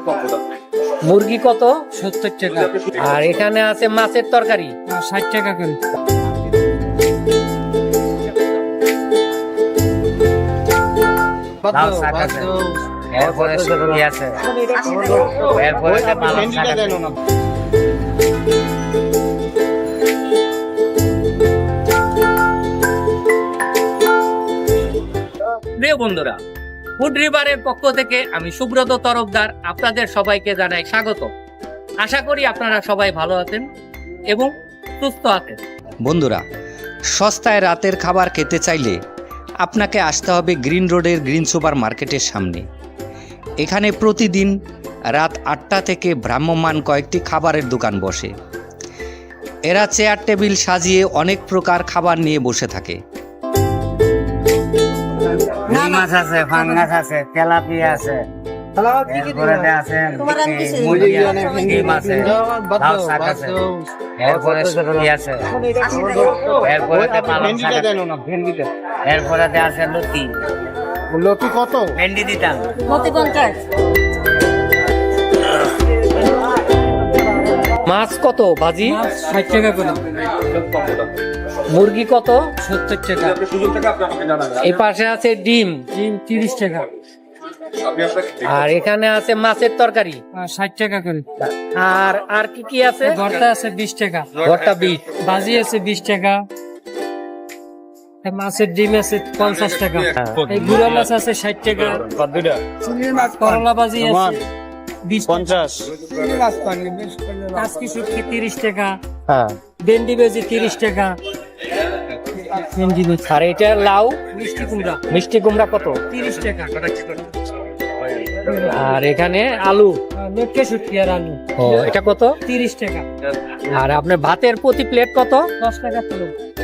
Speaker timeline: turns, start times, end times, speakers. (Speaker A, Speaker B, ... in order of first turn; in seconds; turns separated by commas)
Speaker A: 0.9-1.8, Speaker B: 1.9-2.8, Speaker A: 2.9-4.7, Speaker B: 4.9-5.8, Speaker C: 11.6-14.0, Speaker D: 11.7-12.5, Speaker D: 13.1-17.1, Speaker C: 14.7-15.2, Speaker C: 15.8-17.1, Speaker A: 25.6-26.4, Speaker A: 27.0-31.3, Speaker A: 32.0-33.7, Speaker A: 34.3-35.6, Speaker E: 36.0-36.4, Speaker E: 37.1-39.0, Speaker E: 39.6-42.6, Speaker E: 43.6-44.6, Speaker E: 45.1-48.3, Speaker E: 49.6-53.0, Speaker D: 55.6-58.3, Speaker B: 55.7-56.0, Speaker B: 56.5-56.8, Speaker C: 58.8-59.7, Speaker D: 59.0-63.6, Speaker C: 60.8-65.1, Speaker D: 64.2-68.3, Speaker C: 65.7-68.7, Speaker D: 69.1-70.4, Speaker C: 71.1-72.0, Speaker D: 72.0-73.2, Speaker A: 77.8-79.0, Speaker B: 78.8-80.1, Speaker A: 81.6-82.5, Speaker B: 82.6-83.7, Speaker A: 84.3-85.9, Speaker B: 85.9-86.9, Speaker A: 88.0-90.2, Speaker B: 90.3-91.3, Speaker A: 91.5-93.2, Speaker B: 93.0-94.4, Speaker A: 94.4-95.1, Speaker B: 95.1-96.5, Speaker B: 98.2-102.2, Speaker D: 102.1-102.6, Speaker C: 102.9-103.2, Speaker B: 103.0-104.4, Speaker C: 104.0-104.4, Speaker B: 105.0-105.7, Speaker C: 105.3-107.5, Speaker B: 107.5-109.0, Speaker D: 109.3-109.6, Speaker B: 109.8-111.2, Speaker B: 112.5-113.3, Speaker A: 113.2-114.2, Speaker B: 114.3-115.0, Speaker A: 115.1-116.0, Speaker B: 116.1-117.2, Speaker B: 118.4-118.7, Speaker A: 118.5-120.0, Speaker B: 120.1-121.7, Speaker A: 121.6-122.4, Speaker B: 122.5-123.1, Speaker A: 123.7-125.5, Speaker B: 125.6-126.3